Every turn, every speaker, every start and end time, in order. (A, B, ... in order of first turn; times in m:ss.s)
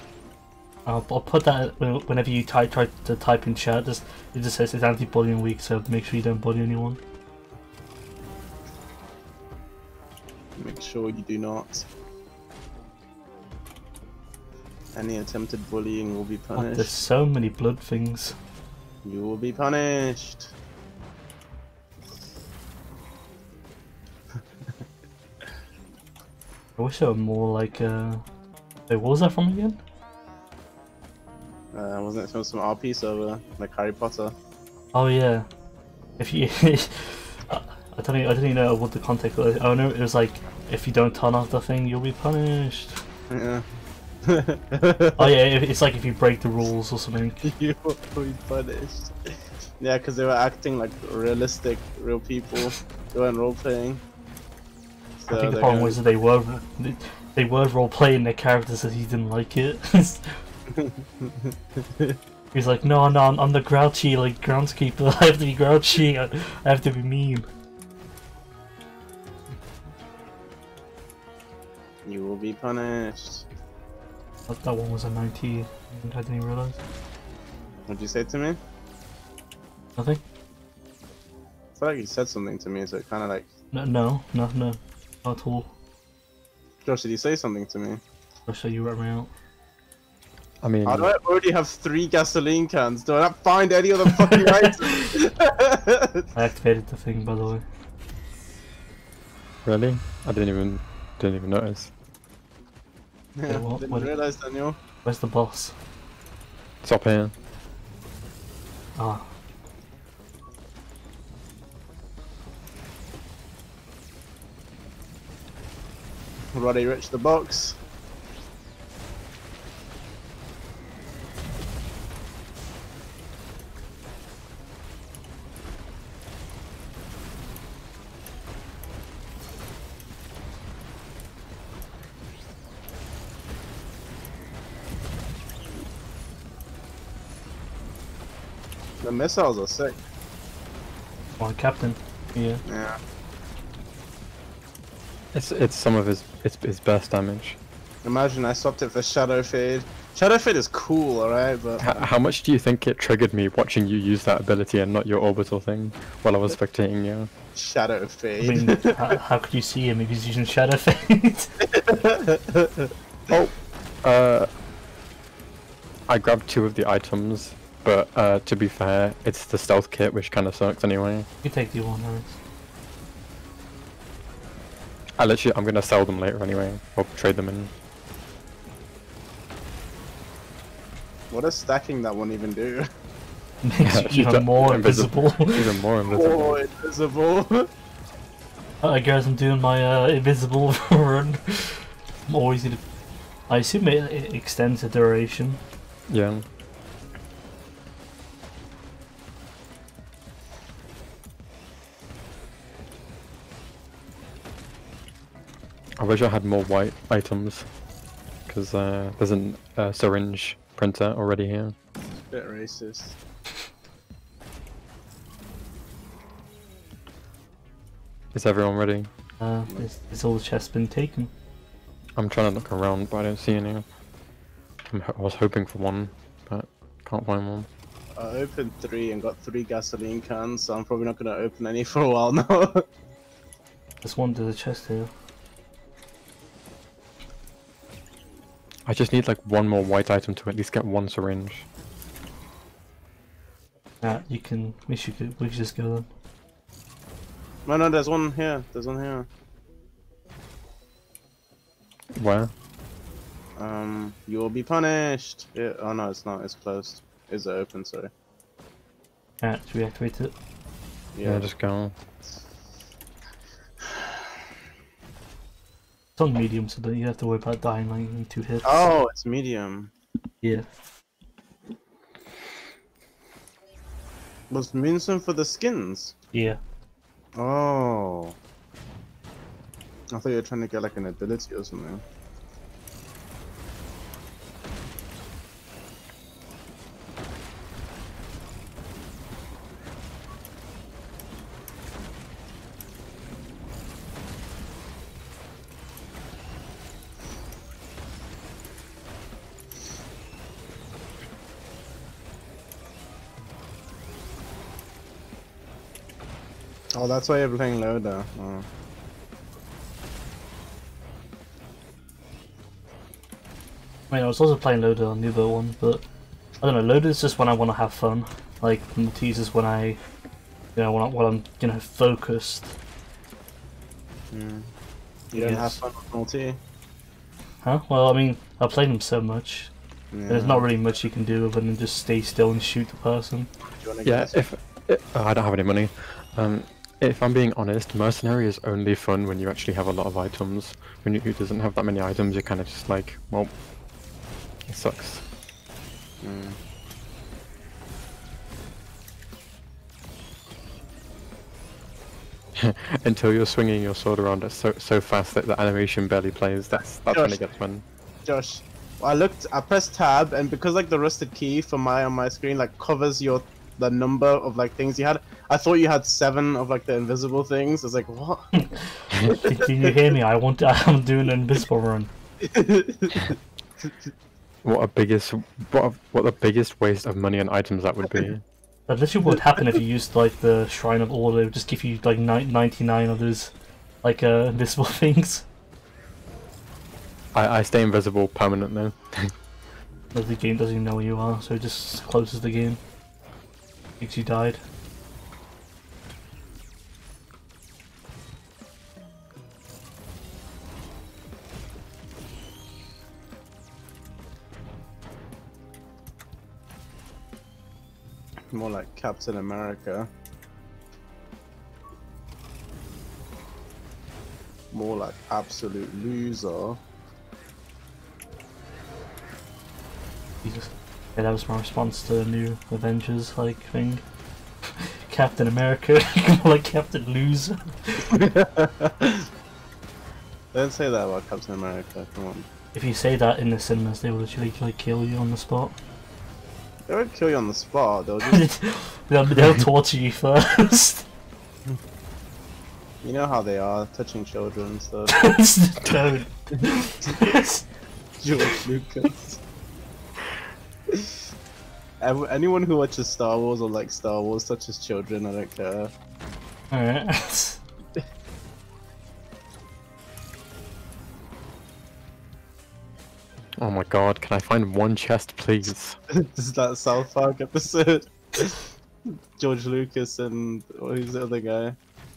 0:00.9-0:07.0 A
0:10.6-0:11.9 B
0:15.0-0:17.0 B
0:16.6-0:18.4 A
0:19.0-0:20.5 B
0:26.8-0:28.2 A
0:28.9-0:29.8 A
0:31.7-0:34.3 B
0:34.9-0:35.5 A
0:36.2-0:43.0 A
0:43.3-0:43.6 B
0:44.2-0:45.3 B
0:45.2-0:47.5 A
0:47.4-0:54.0 B
0:55.2-0:56.0 B
0:55.3-1:00.4 A
1:00.7-1:02.2 B
1:02.5-1:07.5 A
1:12.0-1:13.5 B
1:14.5-1:16.8 A
1:17.9-1:18.6 B
1:21.8-1:23.5 B
1:23.7-1:25.7 A
1:26.8-1:28.0 B
1:28.5-1:29.3 A
1:30.6-1:31.1 C
1:30.9-1:36.3 B
1:34.1-1:35.1 A
1:36.4-1:37.6 A
1:39.6-1:41.9 C
1:43.4-1:44.8 B
1:43.5-1:44.1 A
1:45.0-1:45.8 A
1:46.8-1:47.3 C
1:49.0-1:49.3 A
1:56.5-1:57.8 B
2:19.0-2:20.0 B
2:21.4-2:22.6 A
2:22.7-2:23.0 B
2:25.3-2:27.6 C
2:28.0-2:31.8 B
2:31.8-2:37.3 C
2:37.6-2:39.2 B
2:38.4-2:41.5 A
2:41.6-2:42.9 B
2:43.3-2:44.5 C
2:46.1-2:51.3 C
2:51.4-2:52.4 A
2:55.2-2:57.7 C
3:01.3-3:02.9 B
3:03.6-3:05.7 A
3:03.8-3:06.6 C
3:06.1-3:07.7 B
3:08.8-3:12.8 A
3:13.5-3:15.6 A
3:16.1-3:16.4 C
3:26.0-3:27.7 C
3:28.5-3:31.8 C
3:32.3-3:33.2 B
3:38.3-3:39.1 C
3:39.4-3:41.3 A
3:42.2-3:43.8 C
3:44.9-3:47.7 C
3:48.2-3:52.8 B
3:54.0-3:55.1 A
3:58.9-4:01.7 C
4:04.0-4:06.1 A
4:07.7-4:09.3 B
4:12.2-4:12.5 C
4:13.6-4:18.1 B
4:19.4-4:20.3 A
4:21.2-4:21.5 B
4:21.2-4:22.0 C
4:26.2-4:28.7 A
4:28.6-4:29.9 B
4:30.4-4:30.7 A
4:34.5-4:36.2 B
4:36.3-4:36.6 A
4:37.4-4:38.4 B
4:40.1-4:42.0 B
5:06.9-5:08.7 B
5:14.1-5:16.0 A
5:16.6-5:20.0 A
5:20.8-5:22.7 A
5:24.3-5:24.7 B
5:25.3-5:25.8 A
5:25.3-5:26.6 B
5:27.6-5:29.7 A
5:30.1-5:30.7 B
5:30.3-5:33.5 A
5:33.8-5:34.4 B
5:34.0-5:43.5 C
5:44.7-5:45.2 C
5:46.2-5:46.6 B
5:52.6-5:57.8 C
5:57.1-5:57.4 B
5:58.2-6:08.5 B
6:08.6-6:12.1 A
6:09.5-6:10.0 B
6:12.4-6:13.4 B
6:14.6-6:18.4 C
6:18.9-6:25.4 A
6:27.3-6:29.3 C
6:30.1-6:32.8 A
6:34.0-6:34.6 A
6:48.5-6:50.1 B
6:54.7-6:56.8 B
7:00.4-7:04.0 A
7:04.6-7:08.2 A
7:08.1-7:09.3 B
7:10.5-7:12.5 B
7:12.7-7:15.8 A
7:16.9-7:18.5 B
7:18.3-7:21.0 A
7:23.0-7:25.3 B
7:25.1-7:27.6 A
7:28.2-7:29.4 B
7:32.0-7:35.9 B
7:36.7-7:37.6 A
7:43.6-7:46.0 C
7:46.1-7:51.8 B